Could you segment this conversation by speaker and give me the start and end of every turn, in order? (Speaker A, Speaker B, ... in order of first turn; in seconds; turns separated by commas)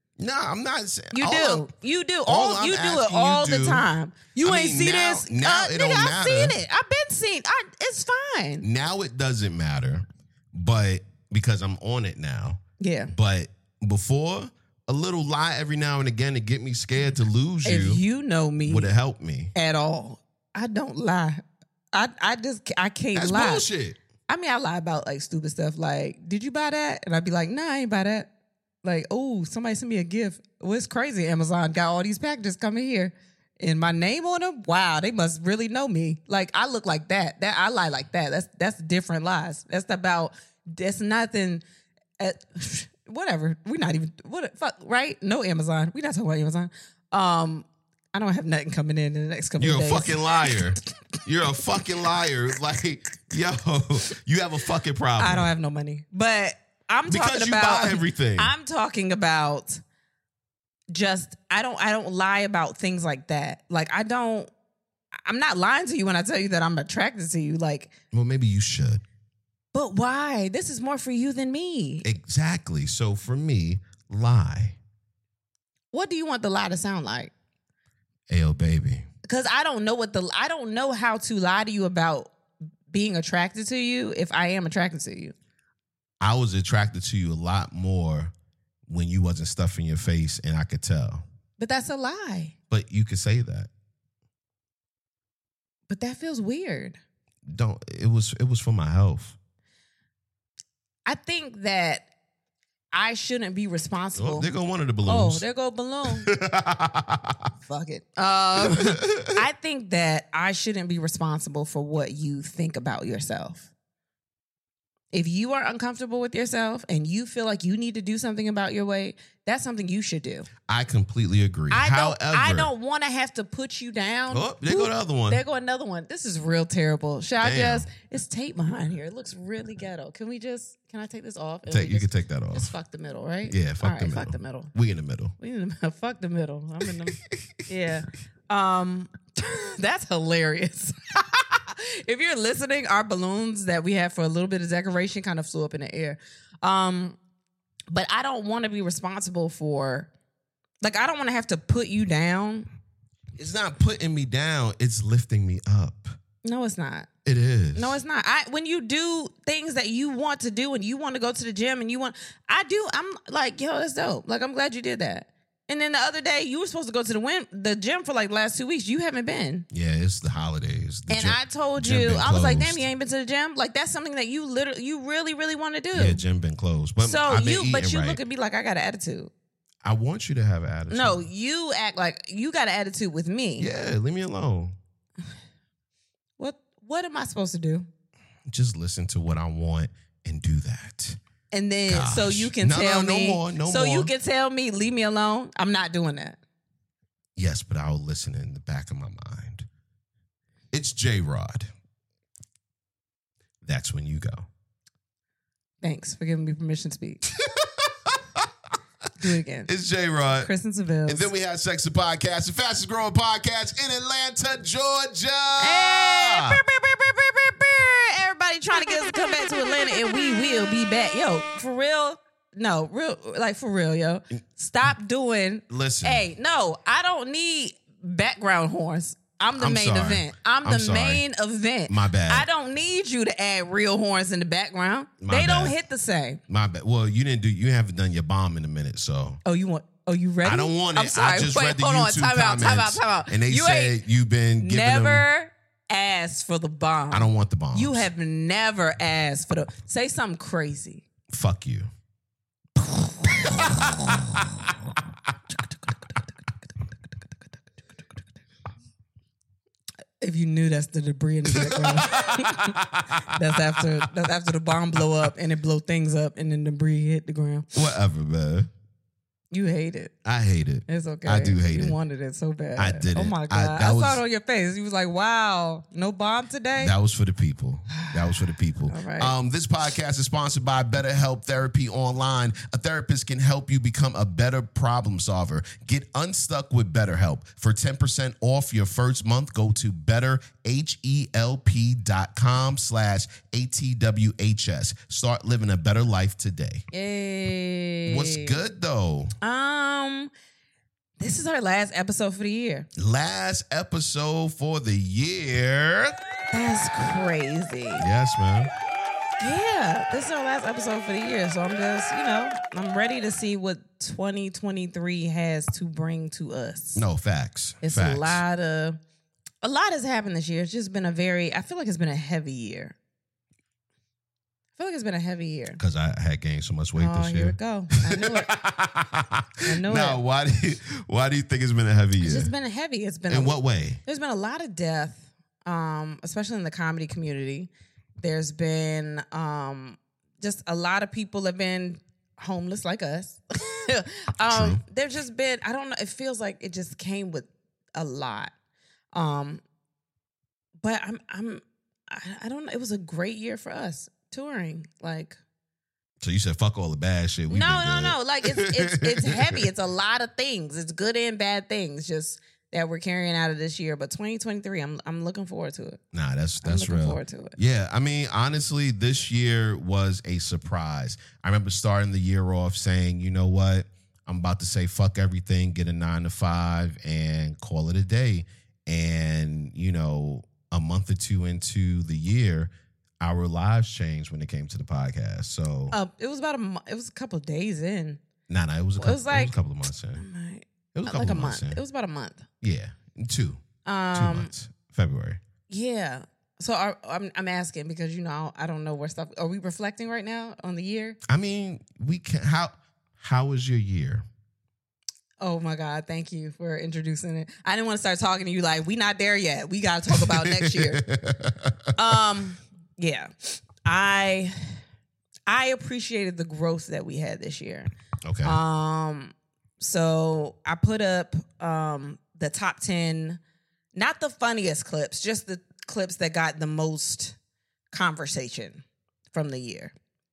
Speaker A: 0.2-1.7, Speaker B: 1.1-8.6, Speaker A: 2.2-3.9, Speaker A: 4.4-6.5, Speaker A: 8.6-18.0, Speaker B: 12.8-13.1, Speaker B: 17.6-18.9, Speaker A: 18.6-19.5, Speaker B: 19.5-23.7, Speaker A: 23.1-24.0, Speaker B: 24.3-28.3, Speaker B: 28.8-41.6, Speaker B: 42.2-50.6, Speaker A: 49.6-55.5, Speaker B: 55.2-59.8, Speaker A: 57.1-58.5, Speaker B: 60.9-64.5, Speaker B: 65.2-67.9, Speaker A: 68.1-69.0, Speaker B: 69.7-72.1, Speaker A: 72.0-74.8, Speaker B: 75.9-77.3, Speaker A: 78.3-79.0, Speaker B: 79.2-82.3, Speaker B: 82.9-85.3, Speaker A: 86.2-88.3, Speaker A: 88.9-91.2, Speaker B: 91.6-92.5, Speaker A: 92.7-93.7, Speaker B: 95.9-97.0, Speaker A: 97.5-99.3, Speaker B: 101.0-102.1, Speaker B: 102.9-104.5, Speaker A: 104.1-105.4, Speaker B: 105.1-106.3, Speaker A: 106.1-107.5, Speaker B: 107.6-113.7, Speaker A: 108.6-109.4, Speaker B: 115.1-120.5, Speaker A: 120.7-122.7, Speaker B: 121.7-134.7, Speaker A: 124.3-125.4, Speaker A: 127.4-127.9, Speaker A: 131.7-132.7, Speaker A: 133.5-135.3, Speaker B: 135.4-147.2, Speaker A: 136.8-137.6, Speaker B: 147.9-150.1, Speaker B: 150.8-152.7, Speaker A: 153.4-156.2, Speaker B: 156.4-157.1, Speaker A: 157.2-158.0, Speaker B: 157.7-169.7, Speaker A: 169.7-172.8, Speaker B: 171.1-176.2, Speaker A: 175.9-178.2, Speaker B: 177.0-179.3, Speaker A: 179.8-181.3, Speaker B: 180.9-183.7, Speaker A: 183.6-184.8, Speaker B: 186.4-187.9, Speaker A: 188.5-191.2, Speaker B: 191.5-196.4, Speaker A: 191.9-194.1, Speaker A: 197.3-199.7, Speaker A: 200.7-201.7, Speaker A: 203.6-204.4, Speaker B: 205.8-207.2, Speaker A: 207.2-208.5, Speaker B: 209.2-209.7, Speaker A: 209.7-210.5, Speaker B: 210.3-211.3, Speaker A: 211.1-216.6, Speaker B: 215.6-236.4, Speaker A: 225.7-226.3, Speaker A: 229.6-231.2, Speaker A: 231.9-232.5, Speaker A: 235.2-235.8, Speaker A: 236.5-239.4, Speaker B: 239.4-244.0, Speaker A: 240.4-245.2, Speaker B: 244.6-251.0, Speaker A: 247.1-248.1, Speaker A: 251.3-251.9, Speaker B: 253.2-253.8, Speaker B: 260.2-267.7, Speaker A: 261.5-263.8, Speaker A: 267.7-268.7, Speaker B: 269.5-270.1, Speaker A: 270.2-272.0, Speaker B: 270.9-276.9, Speaker A: 272.8-274.2, Speaker A: 276.8-296.9, Speaker B: 277.9-279.3, Speaker B: 296.9-298.6, Speaker A: 298.0-299.3, Speaker B: 299.4-300.3, Speaker B: 301.2-302.9, Speaker A: 302.9-306.2, Speaker B: 306.5-308.0, Speaker A: 308.0-308.7, Speaker B: 309.4-317.0, Speaker A: 316.9-318.4, Speaker B: 317.8-319.0, Speaker B: 319.6-322.9, Speaker B: 324.8-325.8, Speaker A: 325.8-332.5, Speaker B: 327.0-328.5, Speaker B: 329.6-330.2, Speaker B: 332.2-348.5, Speaker A: 333.3-334.0, Speaker A: 344.4-344.8, Speaker B: 349.1-349.6, Speaker B: 350.8-355.4, Speaker A: 356.2-359.6, Speaker B: 357.5-366.0, Speaker A: 366.1-385.9, Speaker B: 366.6-367.6, Speaker B: 385.9-388.2, Speaker A: 388.5-390.2, Speaker B: 389.0-389.5, Speaker B: 390.2-392.5, Speaker A: 390.9-391.8, Speaker A: 392.6-393.6, Speaker B: 393.8-394.5, Speaker A: 394.1-395.4, Speaker B: 395.7-401.2, Speaker A: 401.3-404.2, Speaker B: 405.4-411.0, Speaker A: 410.1-412.2, Speaker B: 411.9-414.5, Speaker B: 415.5-417.9, Speaker A: 418.2-418.6, Speaker B: 418.4-423.4, Speaker B: 423.9-427.4, Speaker B: 427.9-429.9